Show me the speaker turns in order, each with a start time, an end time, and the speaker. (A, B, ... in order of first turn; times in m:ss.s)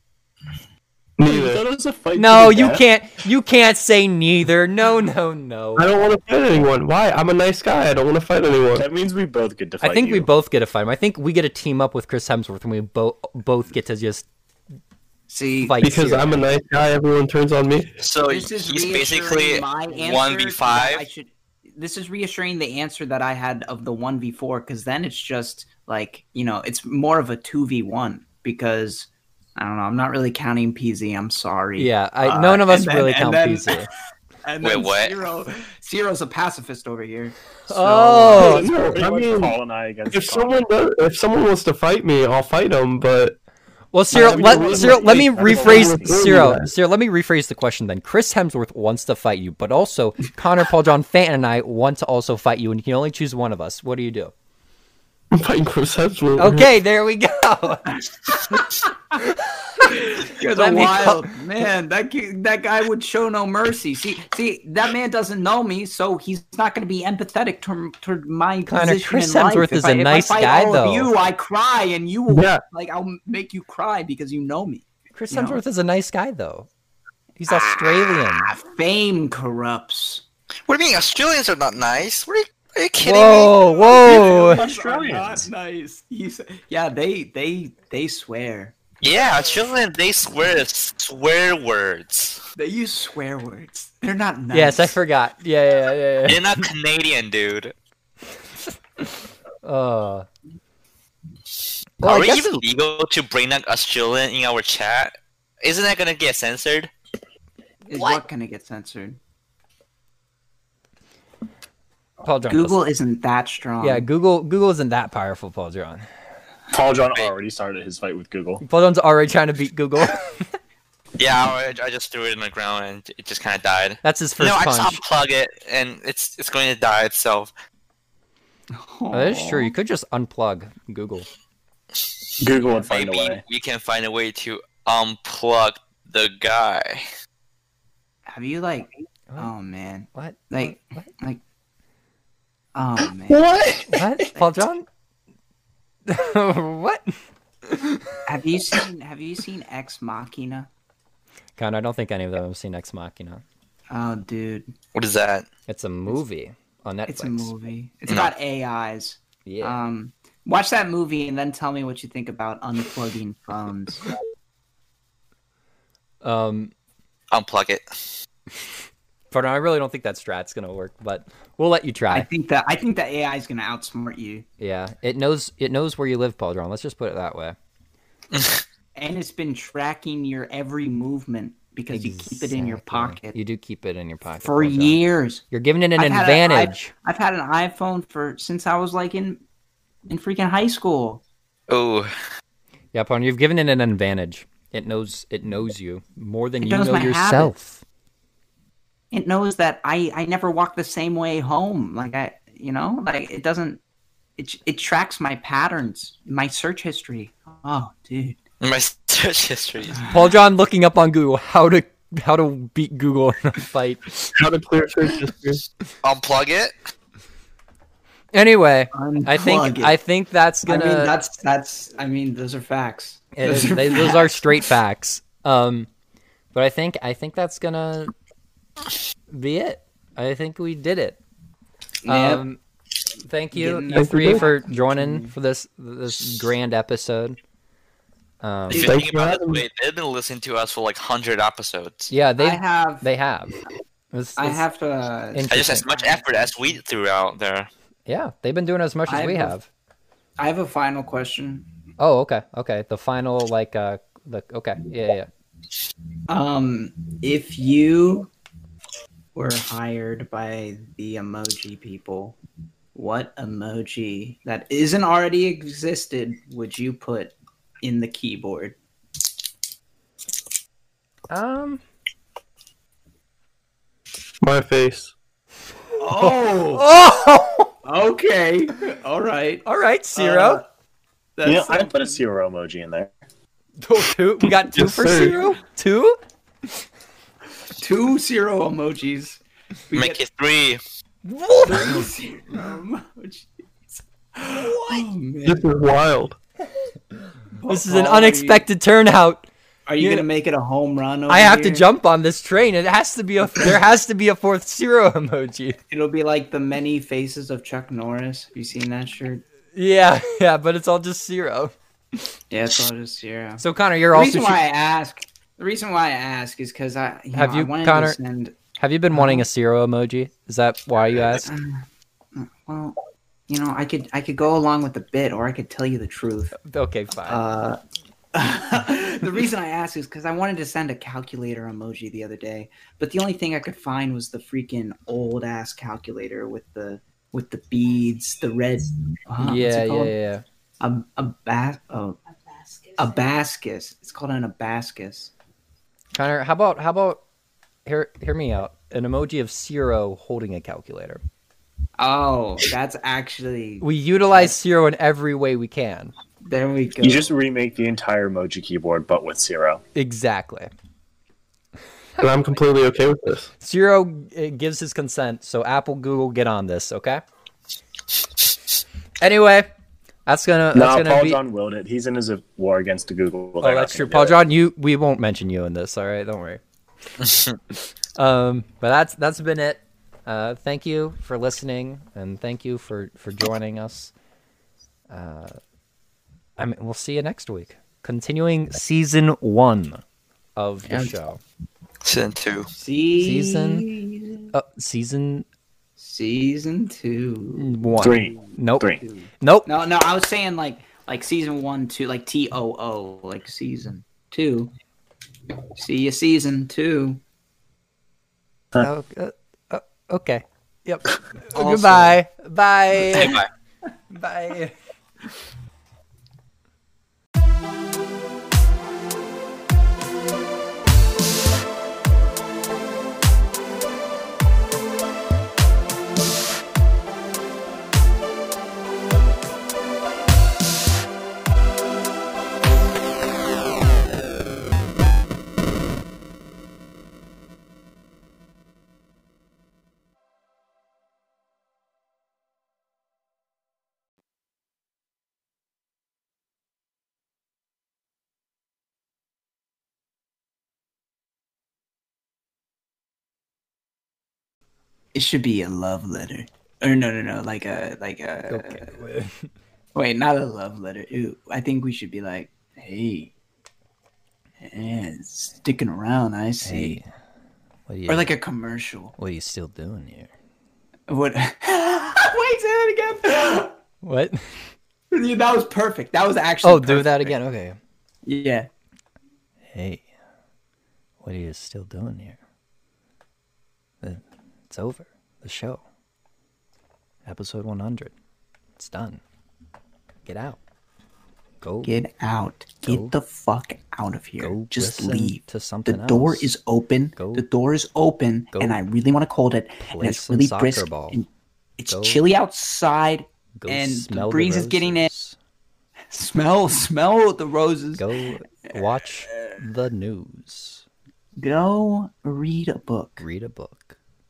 0:01.2-0:01.6 A
0:01.3-0:02.8 B
0:02.2-0:06.0 C
0:05.8-0:08.8 A
0:08.7-0:10.3 B
0:09.8-0:14.3 C
0:15.3-0:15.8 D
0:15.6-0:16.4 C
0:15.8-0:18.0 A
0:18.0-0:21.1 E
0:18.2-0:33.9 D
0:31.8-0:33.9 C
0:34.4-0:38.6 D
0:34.6-0:35.2 E
0:37.7-0:38.8 C
0:38.3-0:40.7 B
0:38.3-0:43.4 A
0:43.9-0:54.3 C
0:44.1-0:46.7 A
0:44.1-0:46.6 B
0:55.3-0:56.7 A
0:56.4-0:58.0 C
0:57.9-0:58.9 D
0:59.3-1:01.3 C
0:59.8-1:15.6 D
1:08.7-1:11.1 C
1:12.3-1:12.6 A
1:15.2-1:16.7 C
1:17.4-1:18.5 C
1:17.5-1:20.2 D
1:20.7-1:23.6 E
1:23.0-1:24.7 C
1:23.6-1:28.8 D
1:23.9-1:25.5 B
1:29.0-1:32.4 E
1:32.6-1:35.0 D
1:34.5-1:36.6 C
1:36.2-1:37.7 E
1:39.6-1:40.3 C
1:42.0-1:42.5 C
1:42.0-1:46.9 E
1:47.9-1:49.2 D
1:47.9-1:48.2 C
1:52.2-1:52.8 C
1:52.5-1:54.1 D
1:53.8-1:56.0 C
1:56.7-1:58.6 B
1:58.6-2:00.5 C
2:01.2-2:07.5 E
2:04.0-2:05.0 C
2:08.7-2:09.7 D
2:09.1-2:11.3 C
2:12.4-2:13.4 B
2:12.5-2:17.0 E
2:18.3-2:21.4 D
2:20.1-2:21.1 C
2:22.8-2:24.5 D
2:23.3-2:23.9 B
2:23.9-2:24.9 C
2:26.1-2:27.2 C
2:27.7-2:28.2 C
2:28.3-2:30.7 D
2:31.6-2:33.4 C
2:33.9-2:34.7 D
2:34.9-2:35.5 E
2:35.7-2:37.5 C
2:37.1-2:44.1 D
2:38.1-2:38.3 E
2:39.4-2:39.8 C
2:46.2-2:46.7 C
2:47.3-2:47.8 E
2:49.3-2:52.3 C
2:52.1-2:54.5 D
2:54.6-2:57.6 C
2:58.3-2:58.6 E
2:59.0-3:03.4 D
3:01.9-3:05.0 C
3:04.4-3:05.4 D
3:05.5-3:06.9 C
3:06.0-3:09.4 D
3:10.1-3:11.2 D
3:11.7-3:12.1 E
3:12.9-3:17.8 C
3:16.6-3:17.5 D
3:19.1-3:23.8 D
3:24.4-3:28.4 D
3:28.6-3:30.0 E
3:30.1-3:34.0 C
3:34.3-3:35.6 A
3:36.0-3:36.7 E
3:38.3-3:41.2 C
3:38.9-3:40.0 D
3:40.7-3:44.4 D
3:43.4-3:45.9 C
3:46.5-3:48.1 C
3:49.3-3:51.2 C
3:52.0-3:52.5 D
3:52.1-3:52.6 C
3:53.2-3:57.4 C
3:53.5-3:55.4 D
3:53.9-3:54.5 A
3:58.4-3:58.9 C
3:58.7-4:02.1 E
3:58.8-3:59.6 A
4:02.1-4:03.6 C
4:02.4-4:03.1 D
4:04.1-4:04.6 C
4:04.4-4:06.8 D
4:05.3-4:05.9 C
4:05.5-4:07.7 E
4:08.1-4:09.7 C
4:09.1-4:09.6 D
4:10.4-4:11.7 D
4:12.0-4:15.3 C
4:16.3-4:18.3 D
4:19.4-4:22.4 D
4:22.9-4:28.8 D
4:31.3-4:31.8 C
4:34.4-4:35.1 A
4:36.0-4:37.0 D
4:36.2-4:37.7 C
4:37.8-4:39.6 D
4:39.6-4:40.6 C
4:40.2-4:40.7 D
4:41.4-4:42.2 D
4:41.4-4:43.1 B
4:43.8-4:46.2 C
4:44.7-4:45.4 A
4:47.8-4:49.4 D
4:49.9-4:50.2 D
4:49.9-4:50.8 E
4:51.2-4:52.1 C
4:51.6-4:55.7 D
4:55.4-4:56.4 A
4:57.6-4:58.7 D
4:57.7-4:59.5 C
4:59.9-5:01.9 D
5:00.0-5:00.3 C
5:01.3-5:05.8 C
5:05.9-5:09.4 D
5:09.7-5:12.2 C
5:12.5-5:18.6 D
5:13.6-5:14.6 C
5:17.3-5:18.2 C
5:18.8-5:21.5 C
5:19.1-5:19.5 D
5:21.4-5:26.6 D
5:26.6-5:27.4 C
5:27.2-5:27.8 D
5:28.3-5:40.2 D
5:39.4-5:40.4 C
5:40.8-5:42.2 D
5:43.0-5:45.3 D
5:46.1-5:47.2 C
5:47.9-5:51.2 C
5:52.0-5:54.6 D
5:53.8-5:56.1 C
5:56.4-5:57.3 D
5:57.0-5:59.8 B
6:00.0-6:00.7 C
6:02.2-6:03.5 A
6:03.6-6:07.2 C
6:09.2-6:09.7 C
6:10.3-6:11.4 C
6:10.7-6:14.4 B
6:13.6-6:16.6 C
6:17.2-6:17.6 E
6:18.2-6:24.1 C
6:25.1-6:25.6 C
6:26.6-6:30.0 C
6:30.6-6:31.4 C
6:30.9-6:31.2 D
6:32.0-6:32.7 E
6:32.7-6:34.5 D
6:33.2-6:33.9 C
6:34.5-6:35.5 C
6:36.0-6:44.7 D
6:37.6-6:39.7 C
6:38.0-6:39.0 B
6:45.8-6:47.2 D
6:48.8-6:53.4 C
6:51.5-6:52.2 D
6:53.2-6:53.5 E
6:54.1-6:54.7 C
7:35.1-7:38.9 D
7:38.5-7:39.5 C
7:40.0-7:43.3 D
7:44.6-7:47.0 D
7:46.6-7:47.1 C
7:47.9-7:48.3 C
7:48.1-7:49.2 D
7:49.2-7:50.3 C
7:51.1-7:53.8 D
7:54.0-7:54.7 C
7:55.1-7:57.3 D
7:56.6-7:57.8 C
7:58.2-7:58.7 D
7:59.7-8:00.0 C
8:01.2-8:02.4 C
8:04.0-8:05.8 C
8:07.2-8:08.1 C
8:08.8-8:09.2 C
8:10.2-8:10.6 C
8:11.6-8:11.9 C
8:11.8-8:21.3 D
8:12.8-8:13.2 C
8:14.4-8:16.5 C
8:17.2-8:17.4 C
8:19.9-8:21.2 C
8:21.8-8:25.1 D
8:21.9-8:22.3 C
8:23.6-8:25.4 C
8:26.1-8:28.1 D
8:28.0-8:30.8 C
8:31.4-8:33.2 D
8:33.2-8:34.0 C